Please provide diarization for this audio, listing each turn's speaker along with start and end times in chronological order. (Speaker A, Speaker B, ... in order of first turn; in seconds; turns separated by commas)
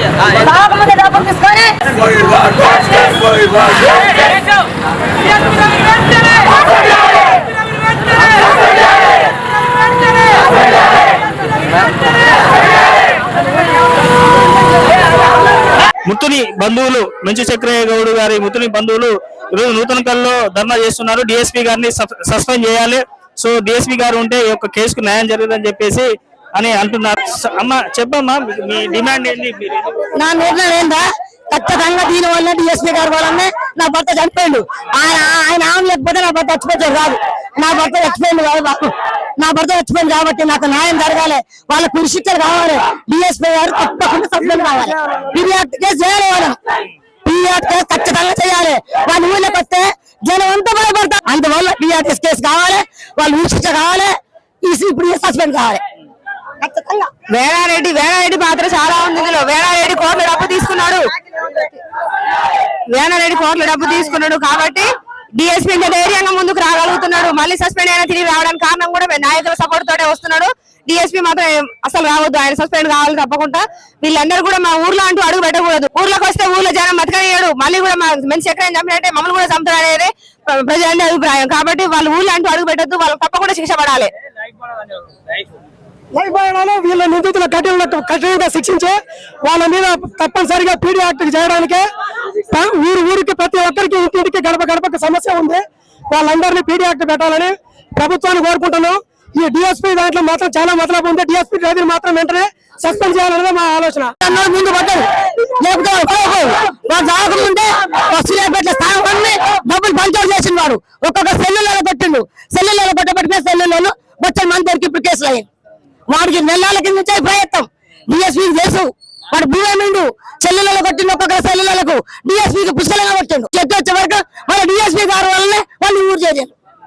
Speaker A: 0.3-1.7, Speaker B: 16.1-30.1, Speaker A: 30.2-46.6, Speaker A: 47.2-55.8, Speaker A: 56.6-57.1, Speaker C: 57.2-61.8, Speaker C: 62.9-84.1, Speaker D: 86.1-91.9, Speaker D: 92.5-104.1, Speaker A: 104.2-115.5, Speaker A: 116.1-126.5